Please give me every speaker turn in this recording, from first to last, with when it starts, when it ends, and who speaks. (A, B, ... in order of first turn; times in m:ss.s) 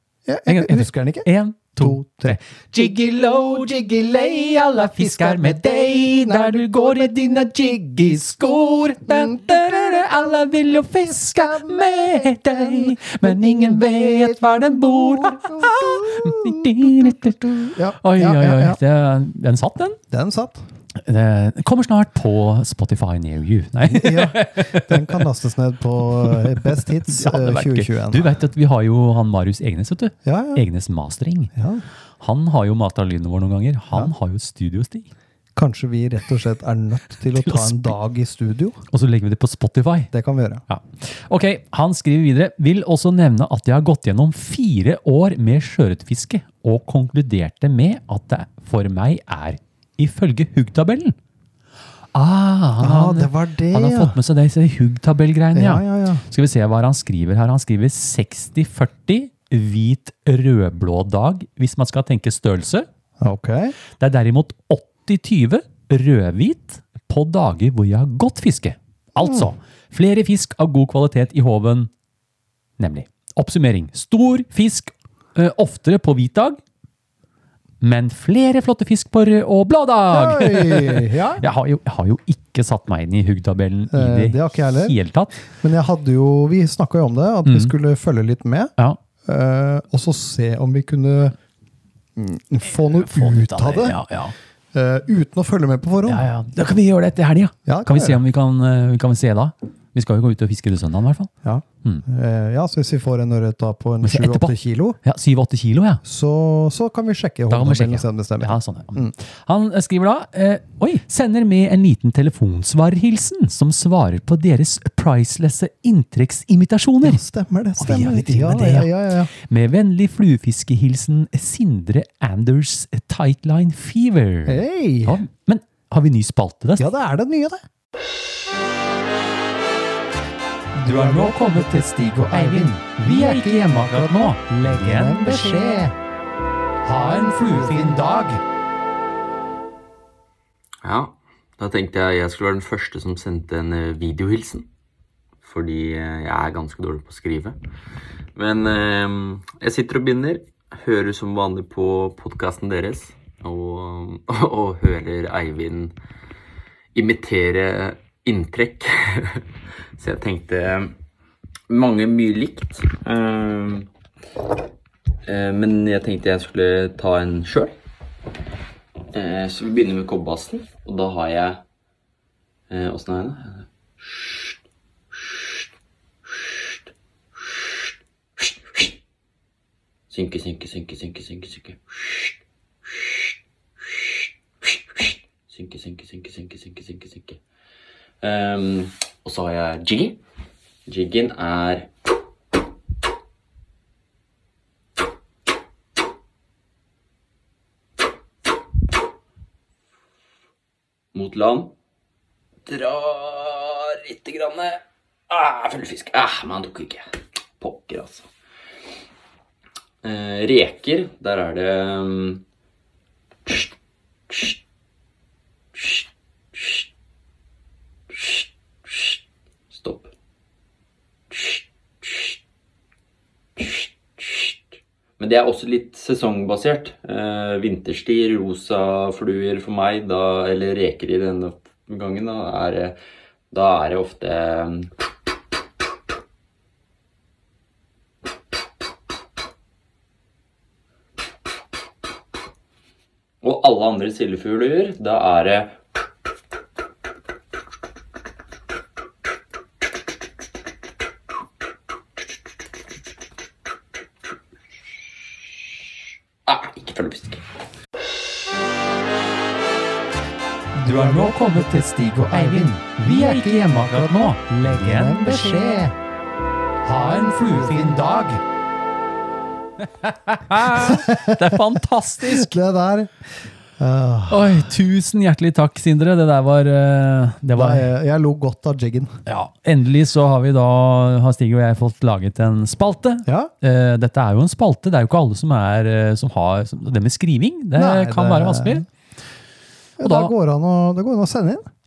0:00.3-0:02.4 A
0:00.5-0:20.0 B
0:04.8-0:07.5 A
0:09.1-0:10.0 A
0:11.5-0:18.8 A
0:20.1-0:20.6 A
0:21.0-0:25.3 B
0:23.8-0:28.4 A
0:26.2-0:31.5 B
0:30.2-0:30.6 A
0:31.6-0:31.8 A
0:32.2-0:35.1 B
0:35.6-0:38.8 A
0:37.3-0:38.0 B
0:38.9-0:40.1 B
0:40.1-0:40.6 A
0:40.7-0:51.2 B
0:52.2-1:02.9 B
0:52.8-0:54.2 A
0:55.5-0:56.2 A
1:03.2-1:03.8 A
1:04.0-1:11.9 B
1:09.2-1:09.5 A
1:12.8-1:16.6 B
1:17.8-1:25.3 B
1:20.1-1:21.4 A
1:23.9-1:25.0 A
1:25.5-1:28.7 A
1:27.4-1:27.7 B
1:29.2-1:31.4 A
1:32.2-1:34.0 A
1:32.9-1:34.4 B
1:34.7-1:36.2 A
1:36.1-1:41.3 B
1:37.7-1:38.2 A
1:41.4-1:45.0 A
1:44.0-1:46.0 B
1:46.0-1:49.1 A
1:47.5-1:57.2 B
1:57.0-1:59.3 A
1:57.8-2:06.9 B
2:04.5-2:05.2 A
2:06.8-2:07.6 A
2:10.8-2:15.9 B
2:10.8-2:15.9 A
2:16.8-2:18.4 B
2:20.8-2:24.7 C
2:25.4-2:27.6 C
2:28.4-2:35.9 C
2:36.9-2:40.9 C
2:41.7-2:43.9 C
2:45.2-2:47.7 C
2:49.1-2:51.6 C
2:52.7-2:54.5 C
2:55.1-2:55.6 C
2:56.3-2:56.8 C
2:57.4-2:57.8 C
2:58.4-2:58.9 C
3:00.1-3:07.4 C
3:08.2-3:10.2 C
3:10.9-3:11.9 C
3:21.1-3:21.7 C
3:22.7-3:28.3 C
3:30.0-3:32.4 C
3:34.3-3:34.6 C
3:35.8-3:36.8 C
3:38.1-3:39.2 C
3:39.7-3:40.1 C
3:41.3-3:42.4 C
3:43.6-3:44.6 C
3:45.2-3:53.0 C
3:53.5-3:54.9 C
4:03.4-4:05.8 C
4:16.5-4:17.4 C
4:20.8-4:25.9 B
4:20.8-4:21.5 A
4:22.2-4:25.9 A
4:26.8-4:28.4 B
4:29.8-4:32.5 B
4:30.7-4:31.6 A
4:32.2-4:33.2 A
4:33.8-4:34.7 A
4:34.3-4:37.9 B
4:37.6-4:39.1 A
4:39.3-4:48.8 B
4:43.3-4:43.5 A
4:47.8-4:48.8 A
4:50.0-4:51.7 A
4:50.0-4:50.3 B